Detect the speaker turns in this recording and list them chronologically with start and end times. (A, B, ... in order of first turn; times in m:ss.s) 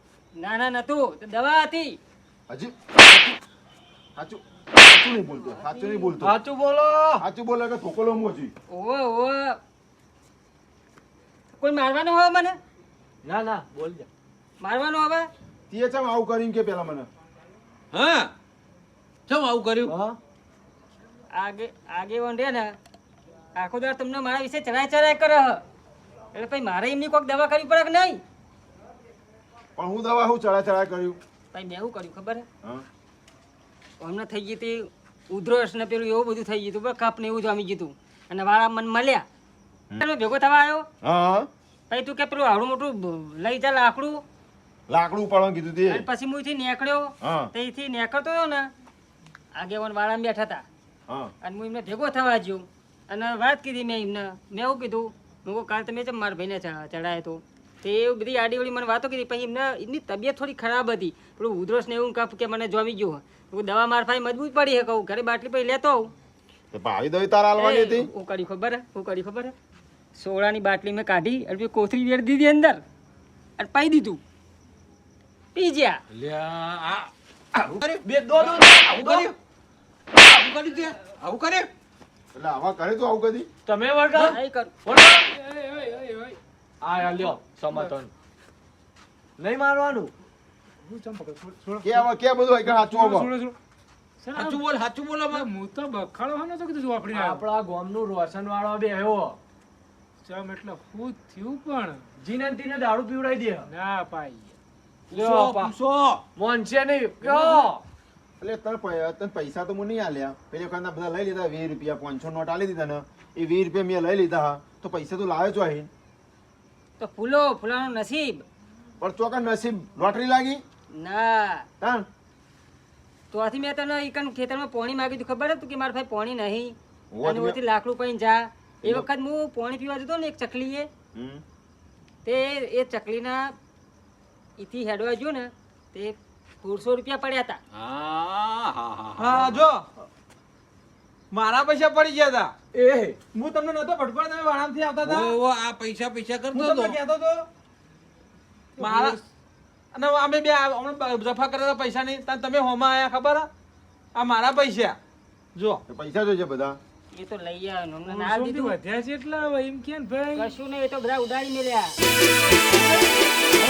0:00.4-0:02.0 A
0:02.5-0:03.4 B
0:04.2-0:06.3 B
0:05.4-0:06.2 A
0:06.2-0:07.2 C
0:07.2-0:08.5 B
0:08.7-0:09.6 A
0:11.6-0:12.6 A
0:13.2-0:14.1 C
0:14.6-0:15.3 A
0:15.7-0:17.1 B
0:17.9-0:18.3 D
0:19.3-0:19.9 D
0:19.8-0:20.2 C
0:21.3-0:22.7 A
0:23.5-0:25.6 A
0:26.3-0:28.2 A
0:29.8-0:31.2 B
0:31.5-0:32.4 A
0:34.0-0:39.2 A
0:40.0-0:40.8 A
0:41.0-0:41.5 B
0:41.9-0:44.2 A
0:44.9-0:46.0 B
0:45.9-0:48.7 A
0:47.2-0:47.5 B
0:49.5-0:50.6 A
0:51.4-1:06.1 A
1:06.7-1:08.1 B
1:07.6-1:09.5 A
1:10.1-1:12.8 A
1:13.6-1:14.2 A
1:15.5-1:16.0 A
1:16.1-1:17.6 D
1:18.0-1:19.3 C
1:20.3-1:21.6 D
1:22.3-1:23.5 B
1:23.6-1:25.2 C
1:24.2-1:24.7 A
1:25.4-1:26.4 E
1:26.8-1:28.1 C
1:29.4-1:30.1 C
1:30.8-1:32.0 E
1:31.8-1:33.3 B
1:32.6-1:33.6 E
1:34.2-1:34.6 E
1:34.4-1:35.4 F
1:35.3-1:37.4 E
1:37.1-1:39.4 C
1:40.2-1:42.0 E
1:42.2-1:43.7 C
1:43.7-1:44.5 E
1:45.1-1:45.7 C
1:45.5-1:46.2 D
1:46.4-1:47.8 C
1:47.3-1:47.6 E
1:48.4-1:55.9 B
1:57.0-1:58.4 A
1:59.0-2:00.6 B
2:00.9-2:01.6 A
2:01.8-2:02.0 B
2:03.3-2:10.9 A
2:07.1-2:07.6 B
2:11.1-2:11.4 B
2:12.2-2:13.5 A
2:14.6-2:17.6 A
2:17.7-2:19.6 D
2:19.2-2:19.8 F
2:21.3-2:22.5 F
2:22.7-2:23.2 C
2:23.3-2:25.3 F
2:25.0-2:27.0 D
2:26.5-2:27.4 F
2:28.8-2:29.2 E
2:28.8-2:29.2 F
2:29.9-2:33.5 F
2:34.2-2:35.0 F
2:35.6-2:35.8 F
2:35.9-2:36.8 B
2:37.1-2:38.8 A
2:38.0-2:40.5 E
2:40.3-2:41.9 A